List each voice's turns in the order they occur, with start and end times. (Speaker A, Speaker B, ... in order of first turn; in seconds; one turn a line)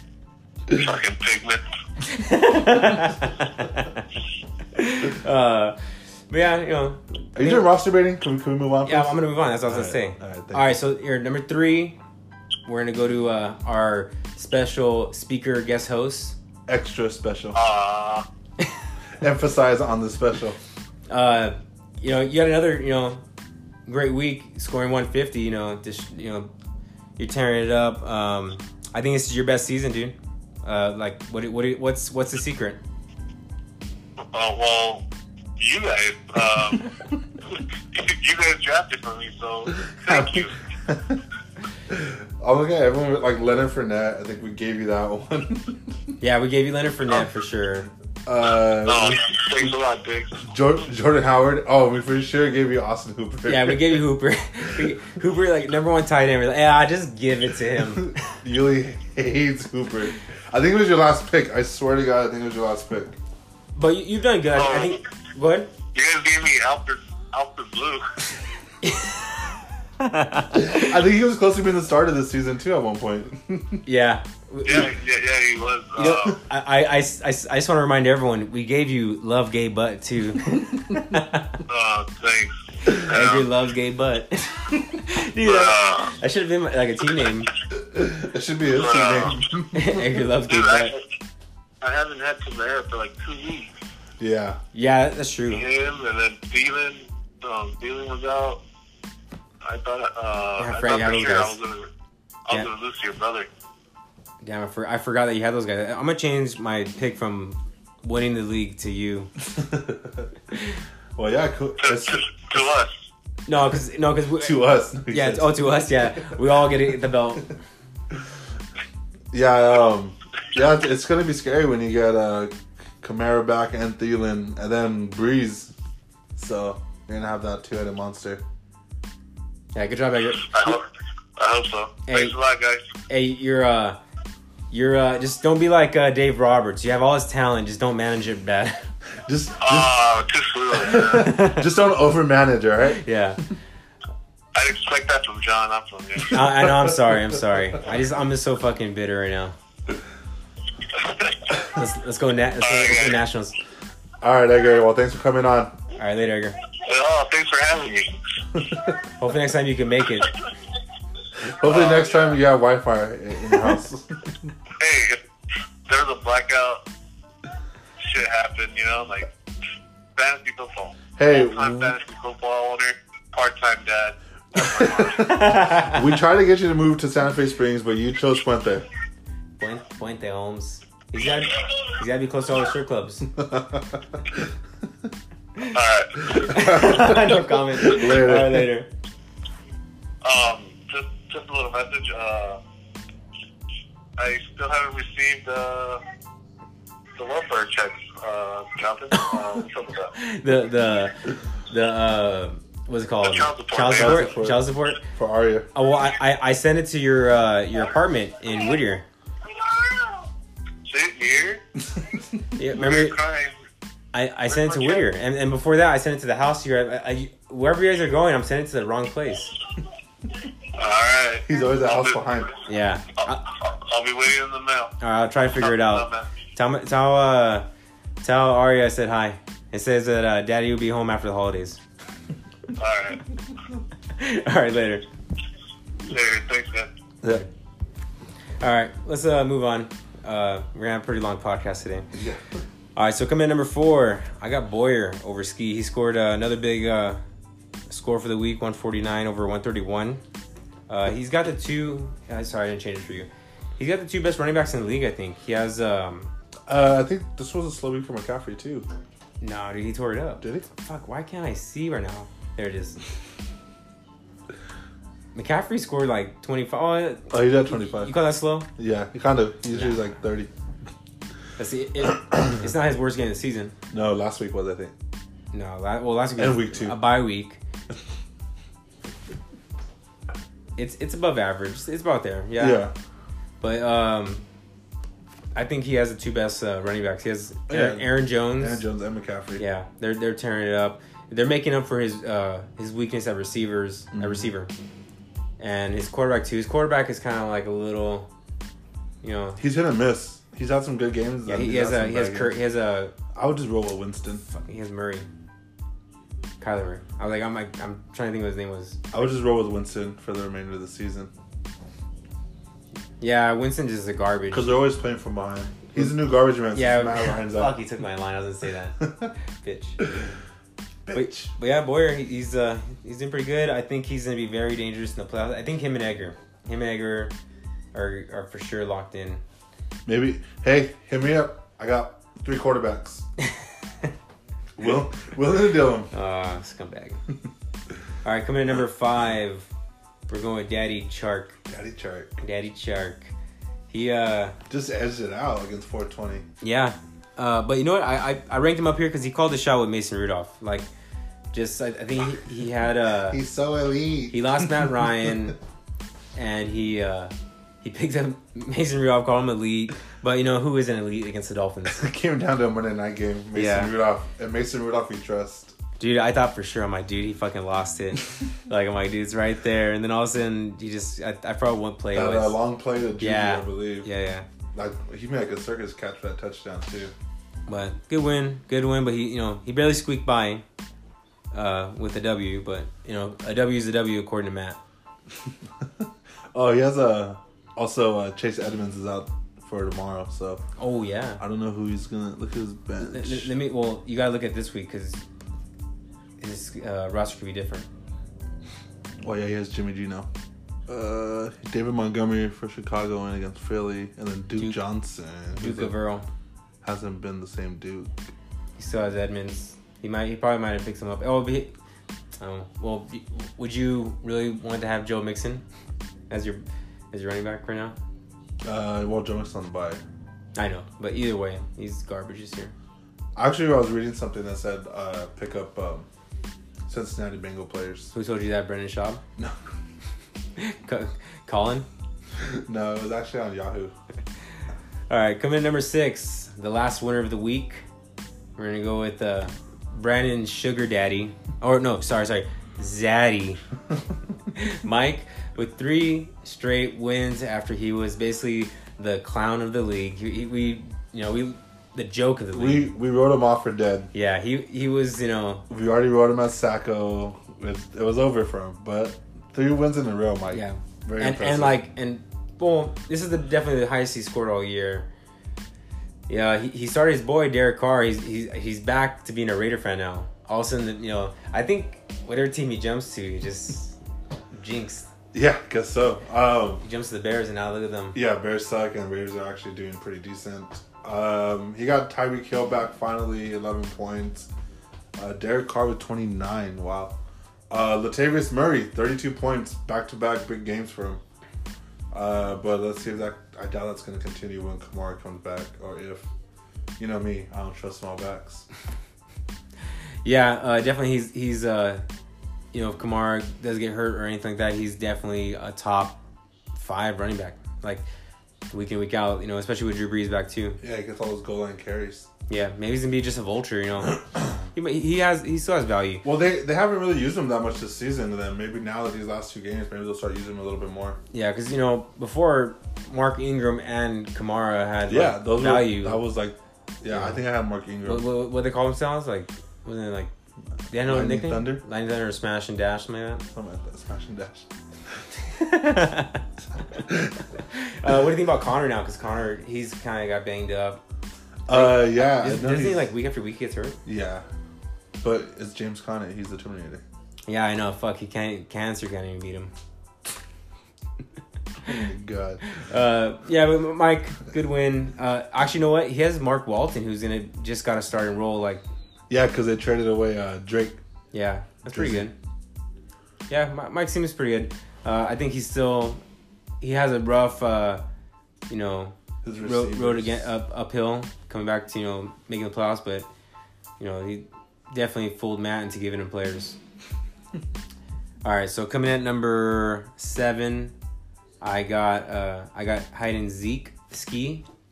Speaker A: 0.7-1.7
Speaker B: 2.0-4.0
Speaker B: 4.7-5.8
Speaker B: 6.3-7.6
Speaker C: 7.3-10.8
Speaker B: 8.8-12.0
Speaker B: 12.7-16.4
Speaker C: 16.7-17.6
Speaker A: 17.5-18.2
Speaker C: 19.2-20.6
Speaker B: 21.1-23.2
Speaker B: 23.9-26.5
Speaker B: 27.2-32.8
Speaker A: 34.3-35.0
Speaker A: 35.6-36.9
Speaker A: 37.5-40.6
Speaker C: 40.0-41.2
Speaker C: 41.9-46.0
Speaker B: 46.2-47.9
Speaker C: 48.2-49.4
Speaker A: 48.8-50.3
Speaker C: 50.4-54.0
Speaker B: 53.5-58.2
Speaker C: 58.0-63.2
Speaker B: 63.8-65.7
Speaker A: 64.5-65.0
Speaker A: 65.9-68.2
Speaker B: 68.8-69.4
Speaker B: 70.0-70.9
Speaker C: 70.5-73.8
Speaker B: 73.8-74.9
Speaker A: 74.6-76.4
Speaker B: 76.0-81.6
Speaker A: 81.7-83.5
Speaker B: 82.9-87.5
Speaker A: 85.4-86.1
Speaker C: 87.7-90.2
Speaker A: 88.8-89.4
Speaker B: 89.7-91.0
Speaker A: 90.5-91.0
Speaker A: 91.8-93.7
Speaker C: 94.2-94.6
Speaker B: 94.7-95.7
Speaker A: 95.5-98.6
Speaker A: 99.6-101.9
Speaker B: 100.6-101.6
Speaker A: 102.5-103.5
Speaker B: 104.4-109.3
Speaker C: 109.5-110.3
Speaker C: 111.2-112.7
Speaker A: 111.8-113.0
Speaker B: 113.5-117.5
Speaker C: 114.4-116.4
Speaker C: 119.3-125.7
Speaker C: 126.3-128.4
Speaker B: 129.7-130.8
Speaker A: 130.5-130.8
Speaker A: 131.4-132.9
Speaker B: 132.1-132.3
Speaker B: 133.1-134.0
Speaker B: 134.7-138.9
Speaker C: 139.2-140.0
Speaker A: 139.6-141.3
Speaker C: 140.8-143.0
Speaker B: 141.1-141.7
Speaker B: 143.0-143.4
Speaker A: 144.5-146.5
Speaker B: 146.3-149.6
Speaker A: 150.9-151.6
Speaker B: 151.7-153.6
Speaker A: 152.6-153.2
Speaker C: 154.2-155.8
Speaker B: 155.9-156.6
Speaker A: 156.8-158.1
Speaker B: 159.2-160.3
Speaker C: 161.4-164.5
Speaker A: 161.6-162.4
Speaker A: 164.8-165.2
Speaker A: 165.9-166.8
Speaker A: 168.0-169.3
Speaker A: 170.2-175.3
Speaker C: 171.2-171.9
Speaker C: 174.6-178.9
Speaker B: 175.2-176.0
Speaker B: 179.6-183.3
Speaker C: 183.3-184.4
Speaker A: 185.6-186.8
Speaker B: 186.3-188.9
Speaker C: 186.4-188.7
Speaker A: 190.2-192.6
Speaker A: 194.2-196.0
Speaker A: 197.2-200.1
Speaker B: 200.1-205.0
Speaker A: 203.2-204.3
Speaker C: 203.8-205.7
Speaker B: 205.7-209.0
Speaker A: 209.9-210.2
Speaker A: 210.8-211.6
Speaker B: 212.6-213.2
Speaker A: 212.7-213.6
Speaker B: 214.1-219.5
Speaker A: 214.5-215.0
Speaker A: 220.7-222.2
Speaker C: 221.4-222.6
Speaker B: 222.7-223.5
Speaker A: 223.2-224.9
Speaker B: 225.0-227.7
Speaker A: 225.6-226.3
Speaker B: 228.2-231.8
Speaker A: 232.8-233.2
Speaker B: 234.1-235.0
Speaker A: 236.0-236.9
Speaker B: 238.6-242.1
Speaker C: 242.1-242.5
Speaker B: 242.9-247.2
Speaker B: 247.9-250.2
Speaker B: 250.9-256.3
Speaker C: 256.7-258.9
Speaker B: 259.4-263.0
Speaker C: 260.4-260.7
Speaker B: 265.3-268.7
Speaker C: 267.3-268.1
Speaker C: 268.8-270.5
Speaker B: 271.6-273.7
Speaker C: 273.9-274.9
Speaker B: 275.5-277.6
Speaker C: 276.4-277.0
Speaker B: 280.8-282.8
Speaker C: 282.6-282.9
Speaker B: 283.6-284.4
Speaker B: 285.5-288.8
Speaker C: 287.7-289.6
Speaker B: 289.6-294.7
Speaker C: 294.1-294.5
Speaker B: 295.6-298.3
Speaker B: 299.2-299.6
Speaker C: 299.6-302.6
Speaker B: 301.4-303.1
Speaker C: 303.3-304.4
Speaker B: 304.4-305.3
Speaker B: 306.6-309.0
Speaker C: 309.1-311.3
Speaker B: 313.2-314.8
Speaker C: 314.5-317.7
Speaker B: 316.7-320.0
Speaker C: 319.0-319.3
Speaker C: 321.1-321.5
Speaker B: 321.1-327.3
Speaker B: 327.9-329.4
Speaker C: 330.1-333.2
Speaker C: 334.8-336.1
Speaker B: 336.1-337.2
Speaker B: 338.2-339.7
Speaker B: 340.3-341.6
Speaker C: 341.7-342.4
Speaker B: 342.4-343.3
Speaker B: 343.9-344.6
Speaker C: 344.7-346.5
Speaker B: 346.6-350.9
Speaker B: 351.5-353.4
Speaker C: 353.3-354.9
Speaker B: 354.3-355.6
Speaker B: 356.3-362.0
Speaker C: 361.9-365.7
Speaker B: 363.5-363.9
Speaker B: 366.0-372.6
Speaker C: 372.1-374.1
Speaker B: 373.2-374.4
Speaker C: 374.7-377.1
Speaker B: 377.7-380.6
Speaker B: 381.5-384.8
Speaker C: 385.8-390.6
Speaker B: 390.8-391.4
Speaker C: 391.4-393.5
Speaker B: 393.0-395.2
Speaker B: 396.4-397.9
Speaker C: 399.2-400.3
Speaker C: 400.9-405.9
Speaker B: 405.5-406.3
Speaker C: 406.8-408.1
Speaker B: 408.8-411.7
Speaker B: 412.4-415.6
Speaker B: 416.3-417.9
Speaker C: 418.6-420.0
Speaker B: 420.5-422.7
Speaker C: 423.4-426.1
Speaker C: 426.9-428.1
Speaker B: 428.1-429.2
Speaker B: 430.6-431.9
Speaker C: 432.4-433.9
Speaker B: 435.1-437.8
Speaker B: 438.6-443.6
Speaker B: 444.5-452.9
Speaker C: 452.5-454.1
Speaker B: 454.1-455.6
Speaker C: 455.7-461.8
Speaker B: 460.5-465.1
Speaker B: 466.3-474.0
Speaker B: 474.5-475.1
Speaker C: 475.3-476.8
Speaker B: 476.8-478.2
Speaker C: 478.1-484.5
Speaker C: 485.1-487.2
Speaker C: 487.7-491.2
Speaker C: 492.1-496.3
Speaker C: 497.0-498.6
Speaker B: 500.2-502.0
Speaker B: 502.7-506.2
Speaker B: 506.7-508.0
Speaker B: 508.7-510.8
Speaker C: 510.8-512.3
Speaker B: 512.5-514.2
Speaker B: 514.7-516.2
Speaker C: 516.2-521.2
Speaker B: 521.3-526.2
Speaker C: 525.1-528.3
Speaker B: 527.1-527.4
Speaker B: 528.0-530.3
Speaker B: 530.9-533.4
Speaker C: 530.9-531.8
Speaker C: 533.5-534.7
Speaker B: 535.5-536.4
Speaker C: 537.0-537.3
Speaker B: 537.7-541.0
Speaker C: 541.7-543.1
Speaker B: 541.7-544.0
Speaker C: 544.0-544.5
Speaker C: 545.2-547.0
Speaker B: 547.5-549.7
Speaker C: 551.8-552.6
Speaker B: 552.7-558.8
Speaker C: 559.3-561.0
Speaker B: 561.3-562.3
Speaker C: 561.9-562.3
Speaker B: 563.5-566.2
Speaker B: 566.8-568.0
Speaker B: 568.7-573.3
Speaker C: 569.4-570.5
Speaker B: 574.0-576.8
Speaker B: 578.4-580.9
Speaker B: 581.6-584.6